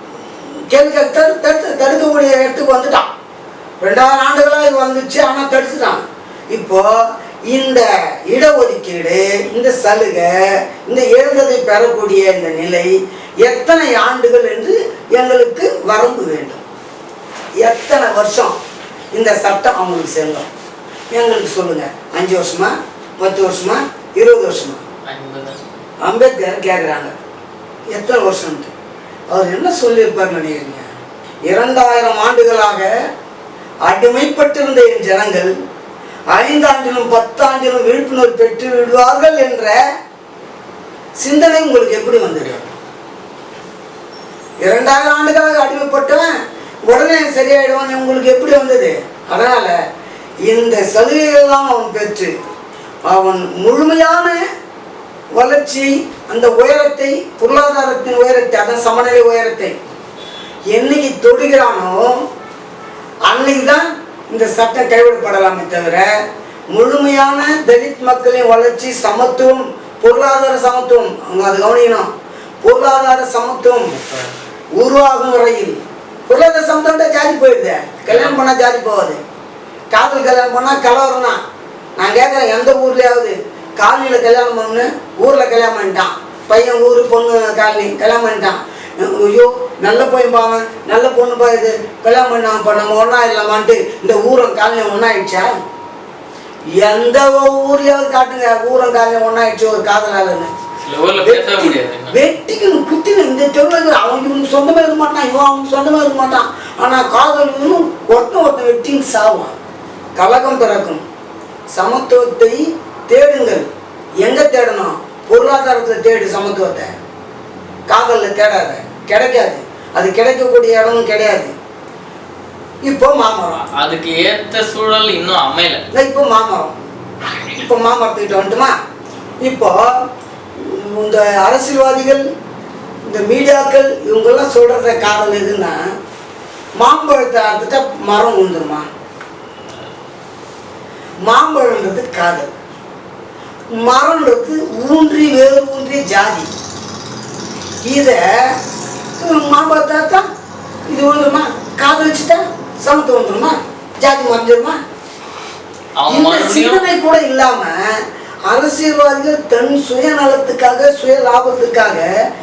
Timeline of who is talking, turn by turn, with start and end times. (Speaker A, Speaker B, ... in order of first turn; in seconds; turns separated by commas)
Speaker A: 0.7-3.1, Speaker A: 3.8-6.9, Speaker A: 7.5-10.3, Speaker A: 10.9-16.6, Speaker A: 17.6-18.5, Speaker A: 19.1-20.5, Speaker A: 21.1-24.8, Speaker B: 25.0-25.6, Speaker A: 26.0-27.1, Speaker A: 27.9-28.7, Speaker A: 29.3-30.8, Speaker A: 31.5-32.9, Speaker A: 33.9-35.5, Speaker A: 36.3-39.8, Speaker A: 41.2-42.6, Speaker A: 44.6-46.3, Speaker A: 46.9-49.8, Speaker A: 50.5-52.3, Speaker A: 53.1-54.4, Speaker A: 55.4-59.7, Speaker A: 60.7-62.2, Speaker A: 63.3-72.1, Speaker A: 72.6-74.0, Speaker B: 74.0-74.3, Speaker A: 74.8-79.2, Speaker B: 78.1-78.4, Speaker A: 79.9-81.4, Speaker A: 82.0-95.5, Speaker A: 96.8-100.5, Speaker B: 100.8-102.2, Speaker A: 101.2-109.6, Speaker A: 110.2-111.0, Speaker A: 111.7-113.7, Speaker A: 114.2-116.9, Speaker A: 117.9-121.5, Speaker A: 122.8-123.7, Speaker B: 123.7-125.8, Speaker A: 125.9-126.7, Speaker A: 127.5-128.7, Speaker A: 129.4-130.0, Speaker A: 130.6-132.2, Speaker A: 133.1-135.8, Speaker A: 136.8-138.8, Speaker A: 141.3-142.5, Speaker A: 143.7-146.5, Speaker A: 147.8-148.6, Speaker A: 149.2-150.3, Speaker A: 150.9-154.8, Speaker B: 156.0-156.9, Speaker A: 156.1-158.0, Speaker A: 158.5-162.1